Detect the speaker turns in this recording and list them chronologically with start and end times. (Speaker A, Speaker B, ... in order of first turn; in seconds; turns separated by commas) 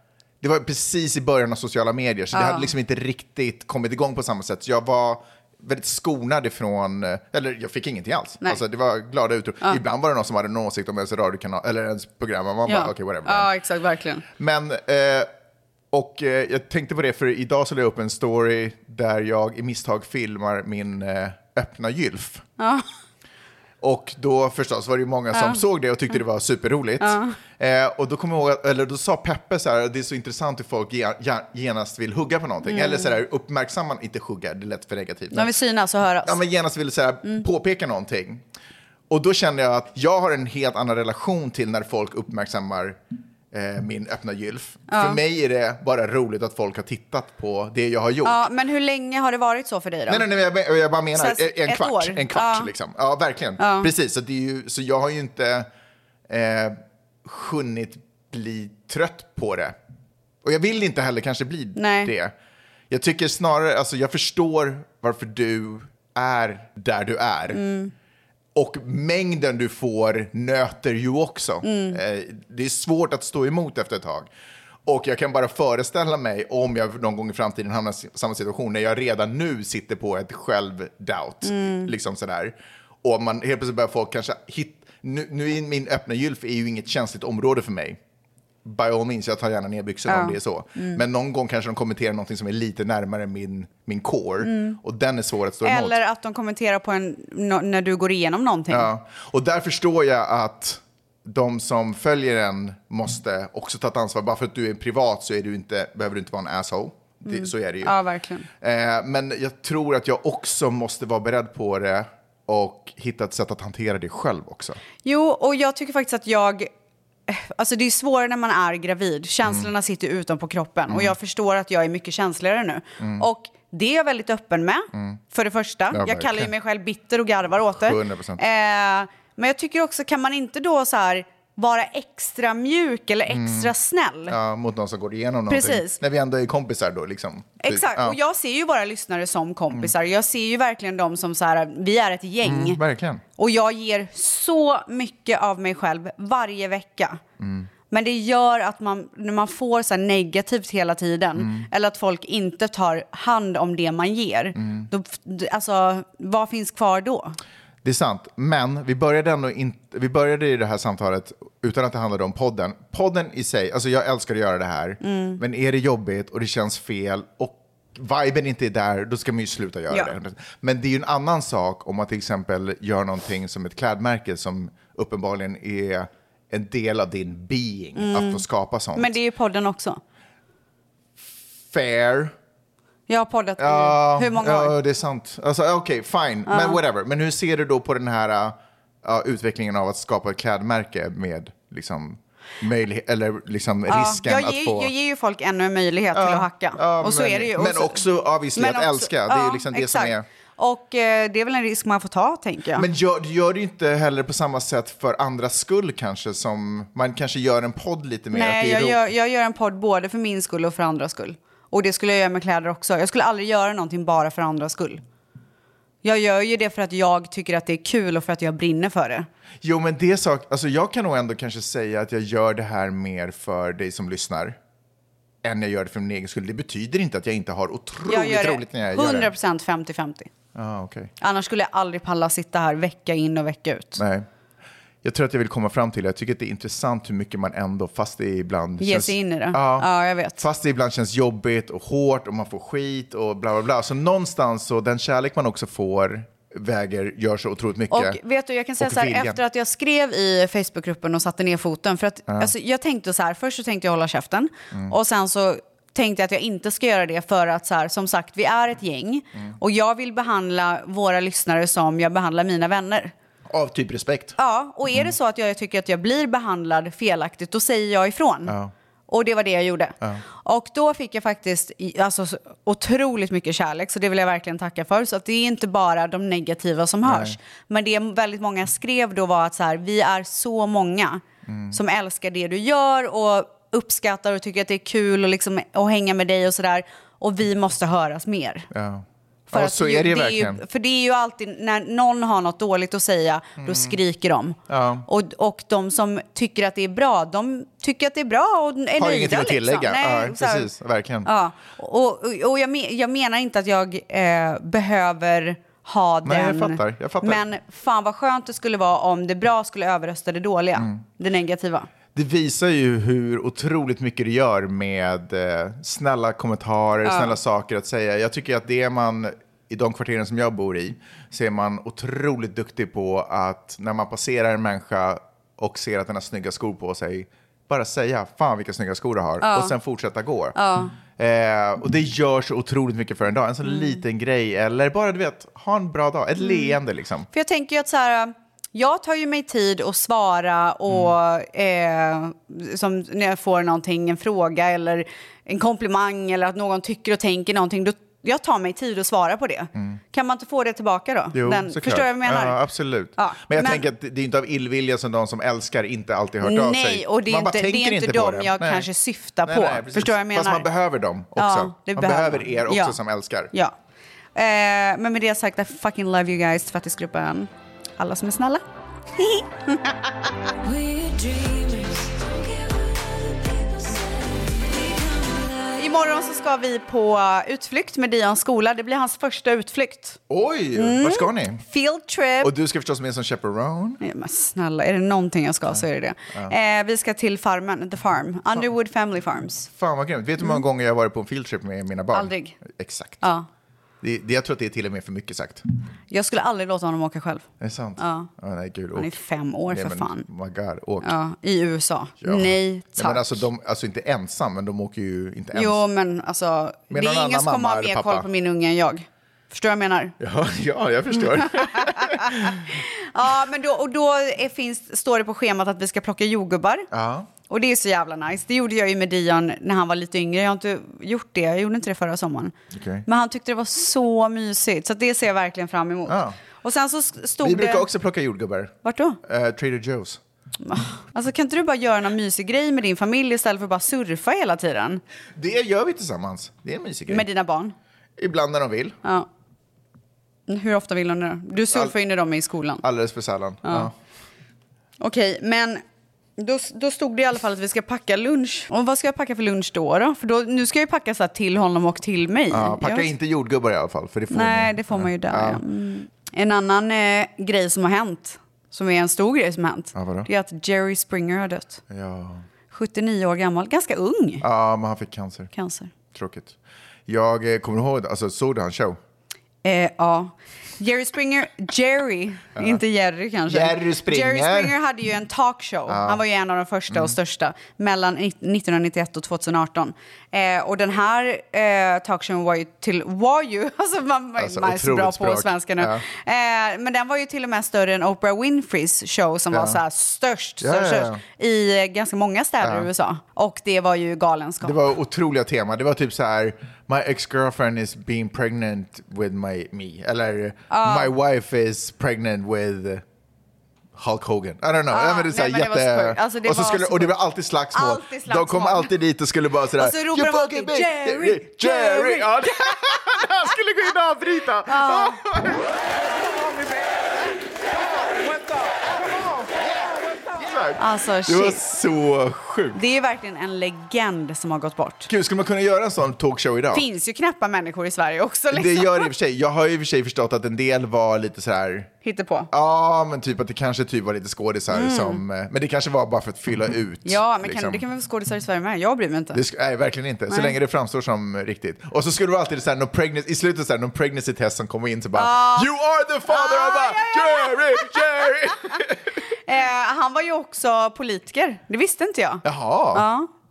Speaker A: 0.4-13.5, Speaker B: 2.3-2.7, Speaker B: 12.7-14.2, Speaker A: 14.4-15.3, Speaker A: 15.9-22.4, Speaker B: 22.6-22.9, Speaker A: 23.8-35.5, Speaker B: 25.3-25.6, Speaker B: 27.0-27.4, Speaker B: 32.6-33.1, Speaker B: 35.3-36.4, Speaker A: 36.2-38.4, Speaker A: 39.1-43.0, Speaker A: 43.5-48.5, Speaker B: 44.9-45.2, Speaker B: 48.2-50.3, Speaker A: 50.1-55.7, Speaker B: 51.2-52.7, Speaker B: 53.6-53.9, Speaker A: 56.3-59.8, Speaker A: 60.4-62.3, Speaker B: 61.8-62.1, Speaker A: 62.9-67.6, Speaker B: 67.5-67.9, Speaker A: 68.5-74.3, Speaker B: 71.6-72.0, Speaker A: 74.9-88.0, Speaker B: 81.4-81.9, Speaker A: 88.7-96.0, Speaker B: 90.1-91.0, Speaker B: 94.4-94.8, Speaker B: 95.6-98.9, Speaker A: 98.7-108.0, Speaker B: 107.3-108.5, Speaker A: 108.6-114.8, Speaker B: 115.0-116.7, Speaker B: 117.3-134.4, Speaker A: 120.9-121.2, Speaker A: 123.0-123.2, Speaker A: 124.9-125.2, Speaker A: 125.9-126.5, Speaker A: 127.8-128.4, Speaker A: 133.3-133.7, Speaker A: 134.3-138.2, Speaker B: 135.5-136.0, Speaker B: 137.6-142.8, Speaker A: 142.4-143.2, Speaker B: 143.4-147.2, Speaker A: 147.4-147.7, Speaker B: 147.9-157.4, Speaker A: 151.4-151.7, Speaker A: 154.6-154.9, Speaker A: 157.8-179.2, Speaker B: 165.0-165.4, Speaker B: 178.0-178.4, Speaker B: 178.9-180.0, Speaker A: 181.7-182.3, Speaker B: 183.1-184.8, Speaker A: 183.6-194.9, Speaker B: 186.5-186.8, Speaker B: 193.9-198.0, Speaker A: 196.1-200.2, Speaker B: 198.6-202.9, Speaker A: 202.8-209.1, Speaker B: 208.3-215.0, Speaker B: 216.0-219.3, Speaker A: 219.6-224.6, Speaker A: 225.4-229.3, Speaker B: 228.1-230.3, Speaker A: 230.6-231.1, Speaker B: 231.2-234.0, Speaker A: 234.0-234.3, Speaker A: 235.0-248.2, Speaker B: 238.8-240.4, Speaker B: 247.9-263.1, Speaker A: 248.8-249.4, Speaker A: 263.5-264.4, Speaker B: 264.4-268.6, Speaker A: 268.5-268.7, Speaker B: 269.1-288.7, Speaker A: 277.1-277.4, Speaker A: 281.5-281.8, Speaker A: 288.7-290.6, Speaker B: 289.5-300.7, Speaker A: 293.6-294.0, Speaker A: 294.7-295.1, Speaker A: 299.0-301.3, Speaker B: 301.2-311.9, Speaker A: 306.2-307.4, Speaker A: 310.8-311.0, Speaker A: 312.1-337.3, Speaker B: 317.0-317.4, Speaker B: 329.4-329.7, Speaker B: 330.6-330.9, Speaker B: 333.7-334.0, Speaker B: 336.4-336.8, Speaker B: 337.3-352.6, Speaker A: 340.9-341.1, Speaker A: 349.8-350.0, Speaker A: 351.3-358.9, Speaker B: 353.2-353.9, Speaker B: 356.4-360.7, Speaker A: 359.4-363.5, Speaker B: 361.4-363.0, Speaker B: 364.4-368.6, Speaker B: 369.2-369.9, Speaker C: 370.6-375.8, Speaker B: 375.8-380.2, Speaker A: 380.3-381.6, Speaker B: 380.8-382.5, Speaker A: 382.4-384.0, Speaker B: 384.0-389.7, Speaker A: 385.7-386.5, Speaker A: 389.7-393.2, Speaker B: 392.1-392.6, Speaker B: 393.2-393.5, Speaker A: 394.0-395.6, Speaker B: 396.1-397.5, Speaker A: 397.6-399.1, Speaker B: 398.0-398.3, Speaker B: 398.9-400.3, Speaker A: 399.7-401.1, Speaker B: 401.0-403.4, Speaker A: 402.2-405.8, Speaker B: 405.5-410.1, Speaker A: 406.9-408.3, Speaker A: 410.2-412.7, Speaker B: 411.6-416.9, Speaker A: 416.9-417.3, Speaker B: 417.5-422.5, Speaker A: 422.7-423.1, Speaker B: 423.1-427.9, Speaker A: 426.1-426.4, Speaker A: 427.4-430.2, Speaker B: 428.8-429.2, Speaker B: 430.6-435.0, Speaker A: 435.4-437.3, Speaker B: 437.1-437.8, Speaker A: 438.2-439.0, Speaker B: 440.5-442.8, Speaker A: 441.7-442.0, Speaker A: 442.8-443.9, Speaker B: 443.6-443.9, Speaker B: 445.0-445.8, Speaker B: 446.4-453.1, Speaker A: 452.5-455.6, Speaker B: 454.3-461.8, Speaker A: 459.9-460.3, Speaker A: 461.9-462.4, Speaker B: 462.7-464.4, Speaker A: 464.4-465.5, Speaker B: 465.5-465.9, Speaker A: 466.1-466.6, Speaker A: 467.1-469.0, Speaker B: 469.6-494.8, Speaker A: 472.6-472.8, Speaker A: 473.5-474.8, Speaker A: 475.9-476.2, Speaker A: 476.9-477.2, Speaker A: 484.4-486.1, Speaker A: 489.5-489.8, Speaker A: 490.6-491.2, Speaker A: 492.6-492.9, Speaker A: 494.6-503.0, Speaker B: 500.7-501.1, Speaker A: 504.0-515.7, Speaker B: 504.9-507.2, Speaker B: 507.7-508.9, Speaker B: 509.8-513.0, Speaker B: 514.7-515.2, Speaker A: 516.5-516.9, Speaker A: 518.2-518.7, Speaker A: 520.3-522.8, Speaker B: 520.8-521.6, Speaker B: 522.7-525.1, Speaker A: 525.1-526.9, Speaker B: 526.7-529.1, Speaker A: 528.5-531.9, Speaker B: 532.0-532.5, Speaker A: 532.5-537.8, Speaker B: 534.7-535.2, Speaker B: 537.0-539.4, Speaker A: 539.3-549.2, Speaker B: 540.3-540.6, Speaker B: 545.2-545.7, Speaker B: 546.3-548.4, Speaker B: 549.5-553.3, Speaker A: 552.4-553.1